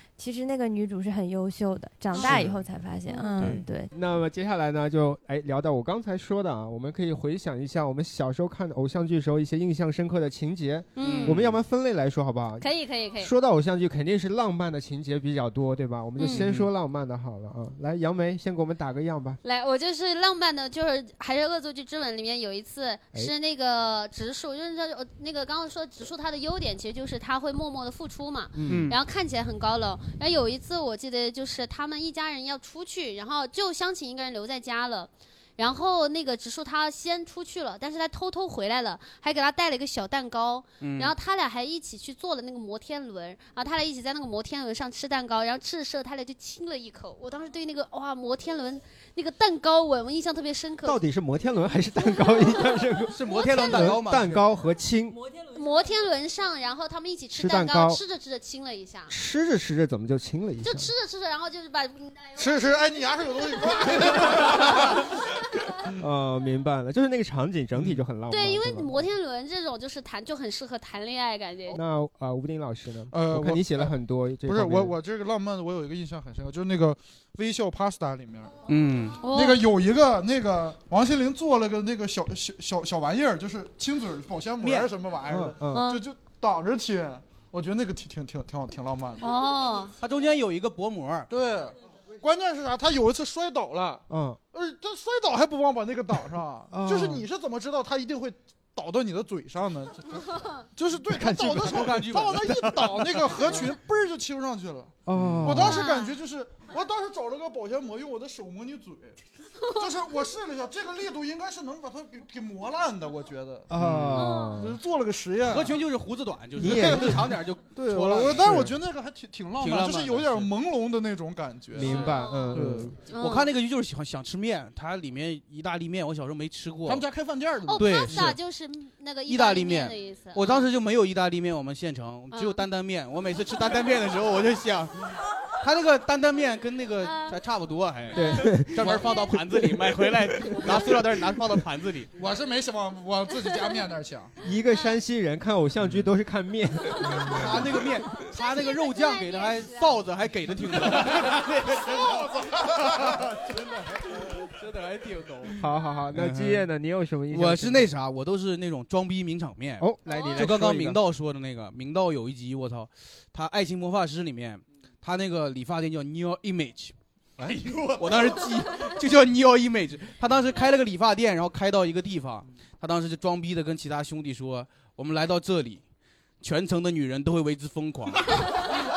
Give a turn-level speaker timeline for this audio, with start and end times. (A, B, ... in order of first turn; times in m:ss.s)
0:00.2-0:03.9 A
0:02.1-0:02.4 B
0:02.2-0:02.5 C
0:02.2-0:02.6 D
0:03.1-0:03.6 B
0:03.4-0:03.6 D
0:03.9-0:19.4 C
0:11.0-0:11.4 B
0:11.0-0:11.6 D
0:12.6-0:13.3 B
0:16.2-0:16.5 B
0:16.2-0:16.7 D
0:19.4-0:51.0 B
0:28.5-0:28.9 C
0:28.7-0:29.0 D
0:40.8-0:41.2 D
0:50.8-0:55.2 C
0:53.1-0:54.5 D
0:53.3-0:54.0 B
0:55.5-0:59.1 B
0:57.3-0:58.0 C
0:59.1-1:00.9 C
1:00.6-1:02.8 B
1:02.4-1:05.1 E
1:03.4-1:04.6 B
1:06.0-1:09.0 C
1:08.3-1:11.8 B
1:11.7-1:15.0 C
1:13.1-1:13.9 E
1:14.4-1:18.5 E
1:18.7-1:19.2 D
1:19.2-1:19.6 B
1:19.3-1:29.2 E
1:24.6-1:24.9 D
1:25.3-1:25.9 C
1:25.7-1:26.0 B
1:29.2-1:30.0 B
1:30.0-1:31.3 D
1:31.3-1:40.2 E
1:34.1-1:34.4 C
1:36.7-1:37.2 C
1:40.8-1:49.2 E
1:41.0-1:43.7 D
1:45.1-1:45.9 C
1:45.1-1:45.6 D
1:45.6-1:46.2 B
1:49.8-1:55.8 E
1:53.7-1:54.8 C
1:53.8-1:54.3 D
1:54.2-1:54.5 B
1:55.4-1:58.8 D
1:56.6-1:57.2 C
1:56.6-2:02.9 E
1:58.4-1:58.7 C
1:59.6-2:00.5 D
2:01.7-2:03.0 C
2:01.8-2:07.1 D
2:02.1-2:03.5 B
2:06.9-2:08.2 E
2:07.7-2:10.7 B
2:07.7-2:08.4 D
2:09.3-2:22.1 D
2:12.3-2:12.7 B
2:17.0-2:17.4 B
2:18.1-2:19.1 C
2:18.2-2:18.5 B
2:20.5-2:20.9 E
2:22.2-2:24.3 E
2:24.4-2:27.8 C
2:24.7-2:25.0 B
2:26.9-2:27.4 B
2:27.3-2:36.6 D
2:28.1-2:30.1 B
2:30.9-2:33.2 E
2:35.6-2:37.9 C
2:37.3-2:55.8 D
2:39.8-2:41.0 C
2:56.4-2:58.7 D